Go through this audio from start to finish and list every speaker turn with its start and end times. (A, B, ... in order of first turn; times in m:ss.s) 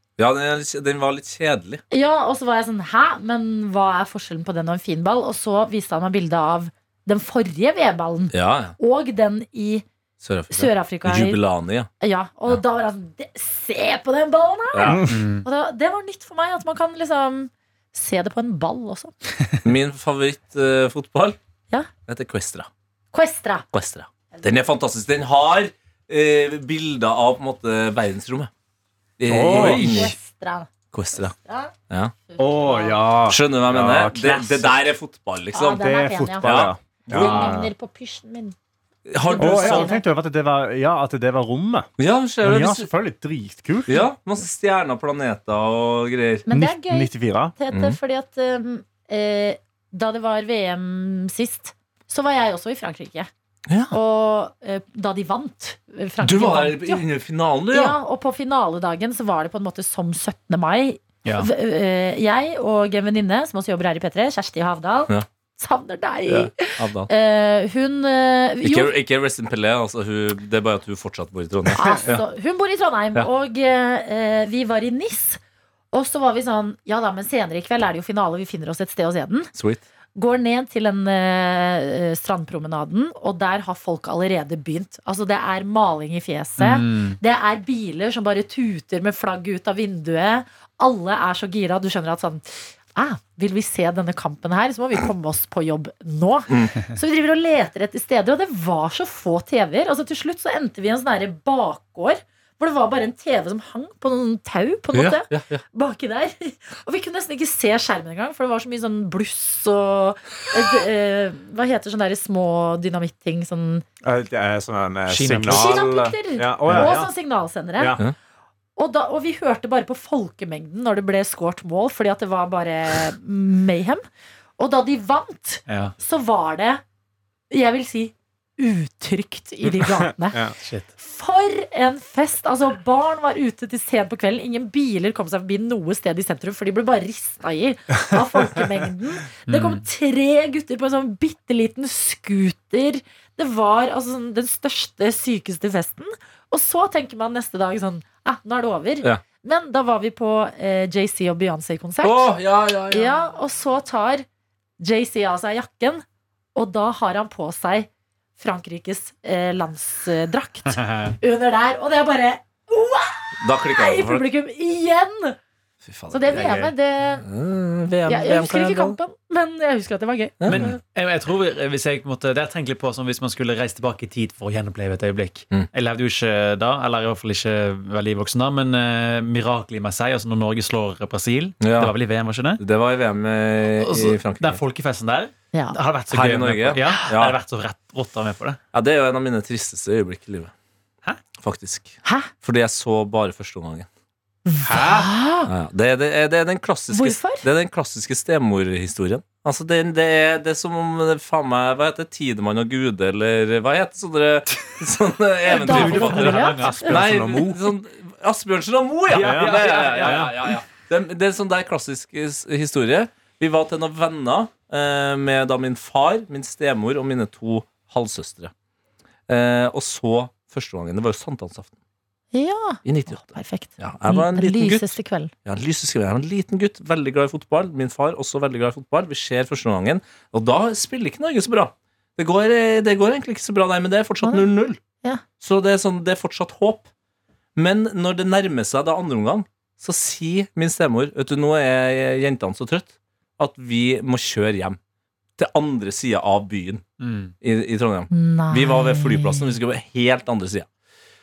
0:00.2-0:01.8 A
0:01.9-0:09.8 B
0:08.3-0:08.8 A
0:10.2-0:11.9 A
0:10.5-0:11.4 B
0:12.0-0:19.1 B
0:14.7-0:15.1 A
0:15.1-0:15.5 C
0:19.6-0:21.4 A
0:22.1-0:22.7 A
0:23.1-0:23.6 B
0:23.7-0:28.5 A
0:29.2-0:30.1 A
0:29.3-0:30.1 D
0:29.4-0:30.0 C
0:29.6-0:30.7 B
0:30.9-0:31.4 A
0:31.2-0:31.7 B
0:32.3-0:33.0 B
0:32.4-0:34.8 D
0:33.3-0:35.8 A
0:35.5-0:36.6 B
0:35.8-0:37.7 D
0:36.4-0:37.6 A
0:37.1-0:38.6 B
0:39.1-0:39.9 A
0:39.2-0:40.0 B
0:39.4-0:41.9 D
0:42.0-0:42.9 A
0:42.4-0:43.9 D
0:43.9-0:46.5 A
0:46.5-0:53.3 B
0:46.5-0:47.6 D
0:47.7-0:48.0 A
0:53.7-0:53.9 A
0:53.9-0:57.0 B
0:56.2-0:58.0 A
0:57.7-1:08.9 B
1:01.2-1:01.5 C
1:06.3-1:07.1 A
1:08.6-1:12.2 A
1:11.7-1:15.4 B
1:15.9-1:19.5 B
1:19.6-1:19.8 A
1:20.2-1:53.8 B
1:26.6-1:27.2 C
1:36.5-1:36.7 A
1:44.9-1:45.6 A
1:54.0-1:57.1 D
1:55.1-1:55.8 C
1:55.5-1:58.0 B
1:58.8-2:04.0 B
2:04.6-2:06.8 B
2:05.7-2:06.0 C
2:07.5-2:10.4 B
2:09.8-2:10.5 D
2:10.6-2:10.9 C
2:11.0-2:32.3 B
2:19.5-2:19.8 C
2:32.0-2:33.2 A
2:32.9-2:34.3 B
2:34.8-2:36.0 B
2:36.6-2:45.4 B
2:40.7-2:41.2 C
2:43.4-2:44.3 A
2:45.8-2:46.7 A
2:46.1-2:47.2 B
2:47.2-2:49.0 A
2:48.1-2:50.4 B
2:50.4-2:50.8 A
2:50.5-3:02.6 C
3:01.6-3:02.0 A
3:02.6-3:04.6 A
3:03.8-3:08.6 C
3:06.1-3:07.4 A
3:08.7-3:10.5 A
3:11.4-3:13.9 A
3:12.0-3:12.3 B
3:14.5-3:15.5 B
3:14.7-3:15.0 D
3:15.5-3:38.5 A
3:16.9-3:17.4 B
3:25.5-3:26.9 B
3:25.5-3:27.0 C
3:26.6-3:27.7 D
3:29.1-3:30.6 C
3:29.1-3:30.3 D
3:39.3-3:41.7 A
3:42.3-3:45.3 B
3:42.8-3:44.9 A
3:45.4-3:54.8 A
3:55.4-3:56.9 A
3:57.6-4:04.8 A
4:05.4-4:06.8 A
4:07.0-4:07.3 C
4:07.4-4:10.7 A
4:08.1-4:09.5 B